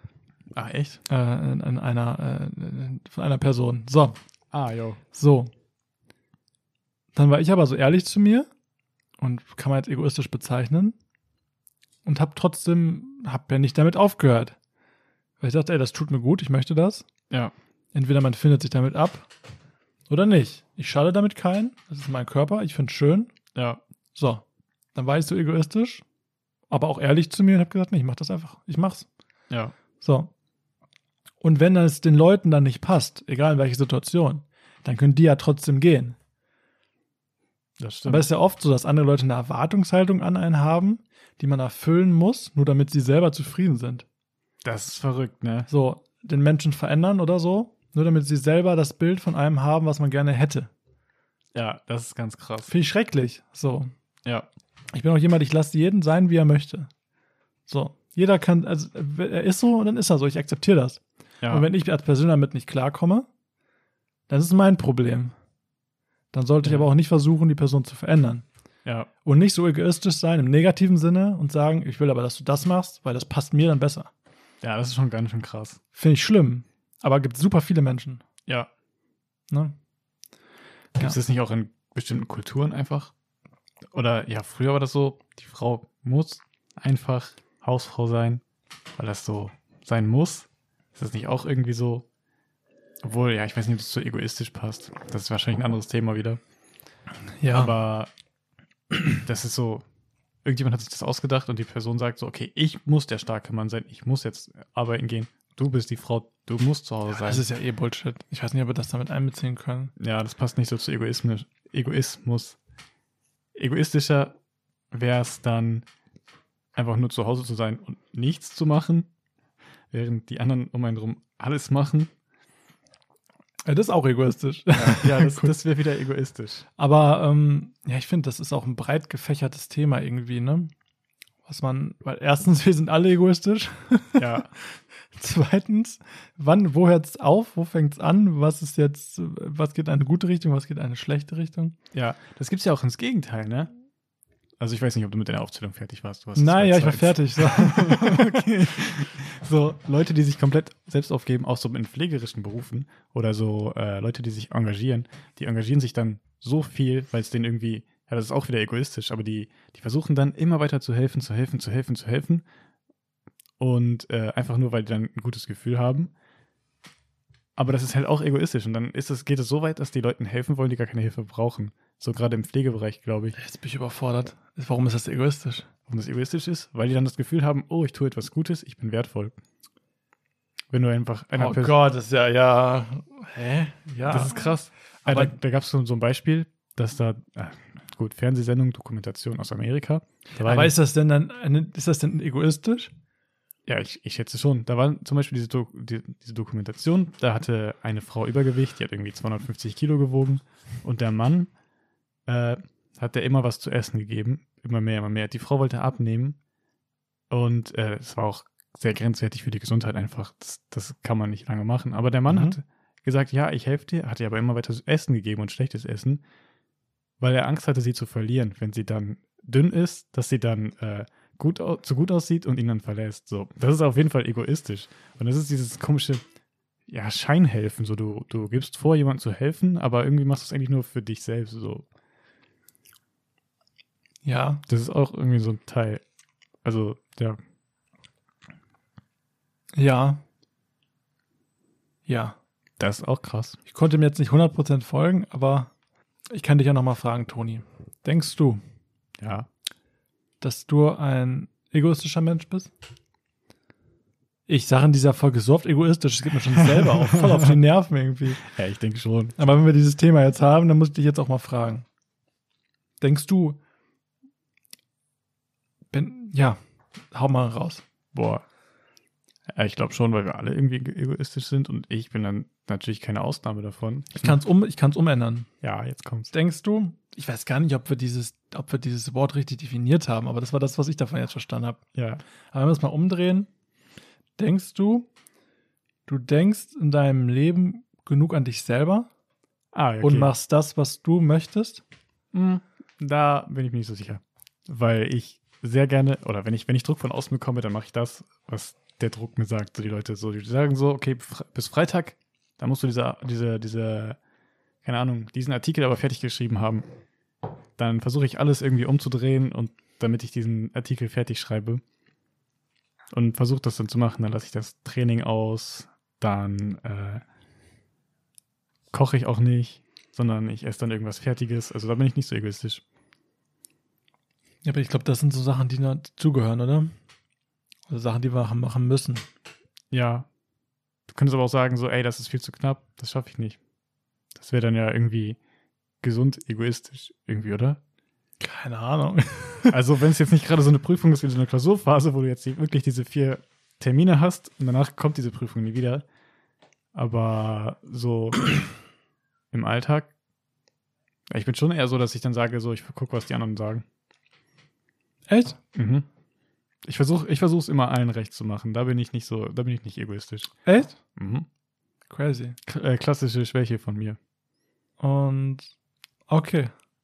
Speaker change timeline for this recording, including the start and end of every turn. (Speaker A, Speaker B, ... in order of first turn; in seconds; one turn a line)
Speaker A: 0.5-1.0
Speaker B: 1.1-4.2
Speaker A: 4.5-5.0
Speaker B: 5.1-5.5
Speaker B: 7.2-8.5
Speaker B: 9.2-11.0
Speaker B: 12.1-14.6
Speaker B: 15.4-17.1
Speaker B: 17.9-19.3
Speaker B: 20.1-23.3
Speaker A: 23.6-23.8
Speaker B: 24.1-24.4
Speaker B: 24.9-26.0
Speaker B: 26.7-29.1
Speaker A: 29.5-29.8
Speaker B: 30.0-30.3
Speaker B: 31.4-36.2
Speaker A: 37.8-38.3
Speaker B: 38.1-44.0
Speaker A: 44.6-45.7
Speaker B: 45.7-50.7
Speaker A: 51.5-52.7
Speaker B: 52.7-53.9
Speaker B: 54.9-56.9
Speaker B: 57.7-63.3
Speaker B: 64.3-65.3
Speaker B: 66.3-68.5
Speaker B: 69.2-74.1
Speaker A: 74.6-75.8
Speaker B: 76.0-78.2
Speaker A: 81.0-83.1
Speaker A: 83.9-88.4
Speaker A: 89.0-92.1
Speaker A: 93.0-96.4
Speaker B: 97.4-97.8
Speaker A: 97.5-98.1
Speaker A: 99.1-99.8
Speaker A: 100.4-107.5
Speaker B: 107.1-109.9
Speaker A: 110.0-112.6
Speaker A: 113.5-114.4
Speaker A: 114.9-115.9
Speaker A: 116.8-119.1
Speaker A: 119.9-122.1
Speaker B: 123.7-125.5
Speaker A: 124.8-126.7
Speaker B: 126.8-130.7
Speaker B: 131.5-141.8
Speaker A: 134.2-134.5
Speaker A: 141.9-143.7
Speaker A: 144.6-162.4
Speaker B: 146.4-148.5
Speaker A: 163.6-166.1
Speaker A: 167.6-173.4
Speaker B: 173.4-175.7
Speaker A: 175.9-179.4
Speaker A: 180.7-181.8
Speaker B: 181.4-184.5
Speaker A: 184.1-190.7
Speaker B: 185.0-185.3
Speaker B: 190.4-192.9
Speaker A: 193.7-201.5
Speaker A: 202.3-206.4
Speaker A: 207.3-216.2
Speaker B: 212.3-212.6
Speaker A: 217.2-226.2
Speaker A: 226.9-231.9
Speaker B: 234.2-234.6
Speaker A: 234.7-236.0
Speaker A: 236.6-237.4
Speaker B: 239.8-240.2
Speaker B: 242.1-242.4
Speaker A: 242.8-243.6
Speaker B: 243.7-245.7
Speaker B: 246.3-248.6
Speaker A: 249.2-249.5
Speaker B: 250.4-252.7
Speaker B: 254.5-258.4
Speaker A: 258.4-259.4
Speaker B: 259.4-261.9
Speaker B: 263.0-263.6
Speaker B: 265.9-266.6
Speaker B: 267.1-267.8
Speaker A: 268.1-268.4
Speaker A: 269.5-274.4
Speaker B: 274.1-275.5
Speaker A: 275.6-276.3
Speaker B: 276.3-281.8
Speaker A: 281.9-282.2
Speaker B: 282.5-283.5
Speaker B: 284.4-285.1
Speaker B: 286.1-289.1
Speaker A: 289.7-290.3
Speaker B: 290.0-291.8
Speaker A: 292.3-304.2
Speaker A: 304.8-306.9
Speaker A: 307.8-311.8
Speaker A: 313.1-317.2
Speaker A: 318.9-322.8
Speaker B: 324.6-326.9
Speaker B: 327.9-329.3
Speaker A: 329.9-330.3
Speaker A: 331.1-333.6
Speaker A: 334.4-335.4
Speaker A: 336.0-337.8
Speaker B: 338.4-339.8
Speaker A: 339.7-346.1
Speaker A: 346.9-348.7
Speaker A: 349.5-350.1
Speaker A: 351.3-353.9
Speaker B: 355.3-355.6
Speaker A: 355.8-356.1
Speaker A: 356.9-360.5
Speaker B: 360.6-361.0
Speaker A: 361.1-361.5
Speaker B: 362.1-362.6
Speaker A: 362.7-364.2
Speaker B: 365.0-365.7
Speaker B: 366.3-366.7